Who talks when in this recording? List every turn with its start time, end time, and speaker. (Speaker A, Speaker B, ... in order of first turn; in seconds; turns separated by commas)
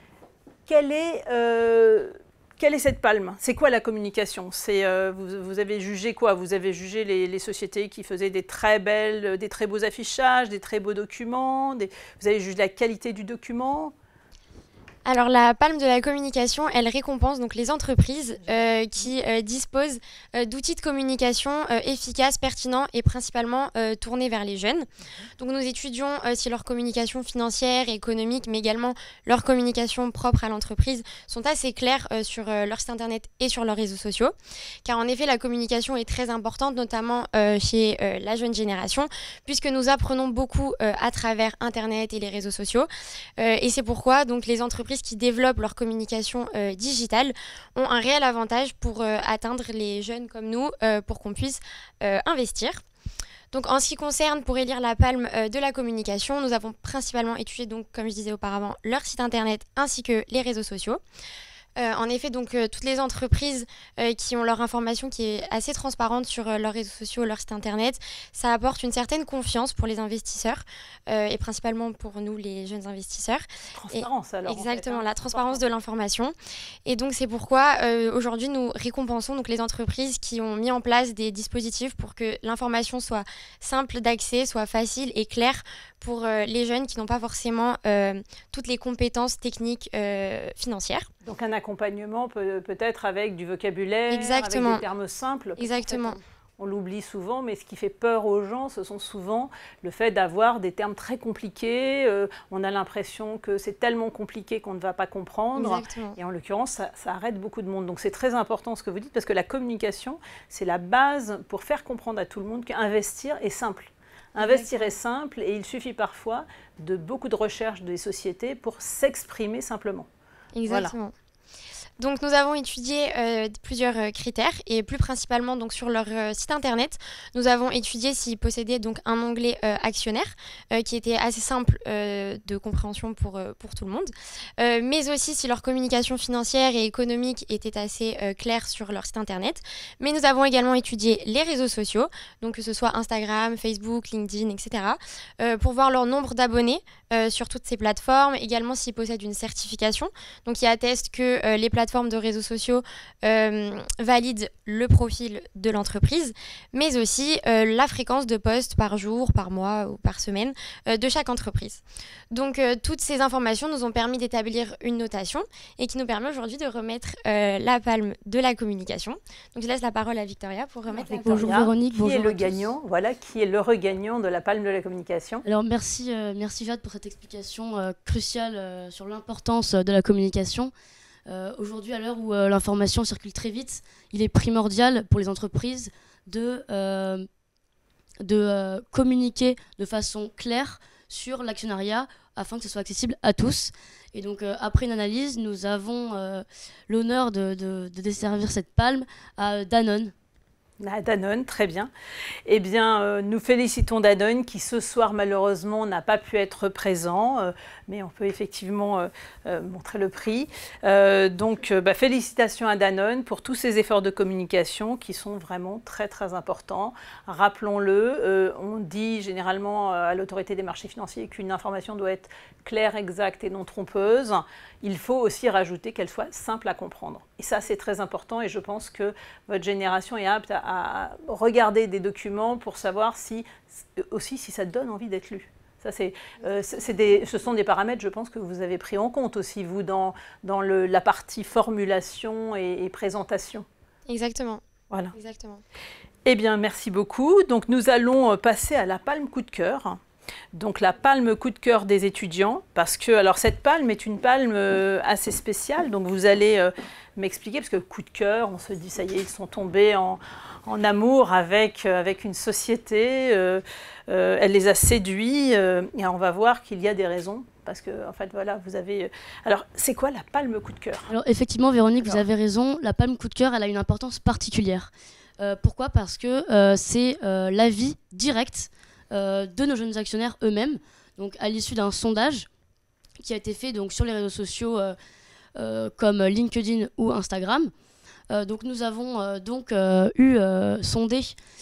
Speaker A: 0.7-13.9, Speaker B: 15.1-52.8, Speaker B: 53.5-61.0, Speaker B: 61.8-76.3, Speaker A: 73.7-75.6, Speaker B: 76.8-91.1, Speaker A: 91.2-120.1, Speaker B: 94.1-94.8, Speaker B: 95.6-96.2, Speaker B: 105.5-106.2, Speaker B: 114.4-114.9, Speaker B: 120.5-121.1, Speaker A: 120.7-120.9, Speaker B: 122.0-171.5, Speaker A: 170.9-175.4, Speaker C: 171.2-172.7, Speaker C: 175.4-180.7, Speaker C: 181.3-187.3, Speaker C: 188.2-200.1, Speaker A: 200.8-201.9, Speaker A: 202.4-243.7, Speaker B: 236.4-236.9, Speaker B: 244.1-244.6, Speaker B: 245.1-245.6, Speaker A: 246.2-250.0, Speaker A: 250.5-271.1, Speaker C: 271.1-282.5, Speaker C: 283.2-284.9, Speaker C: 285.6-287.7, Speaker C: 288.3-291.4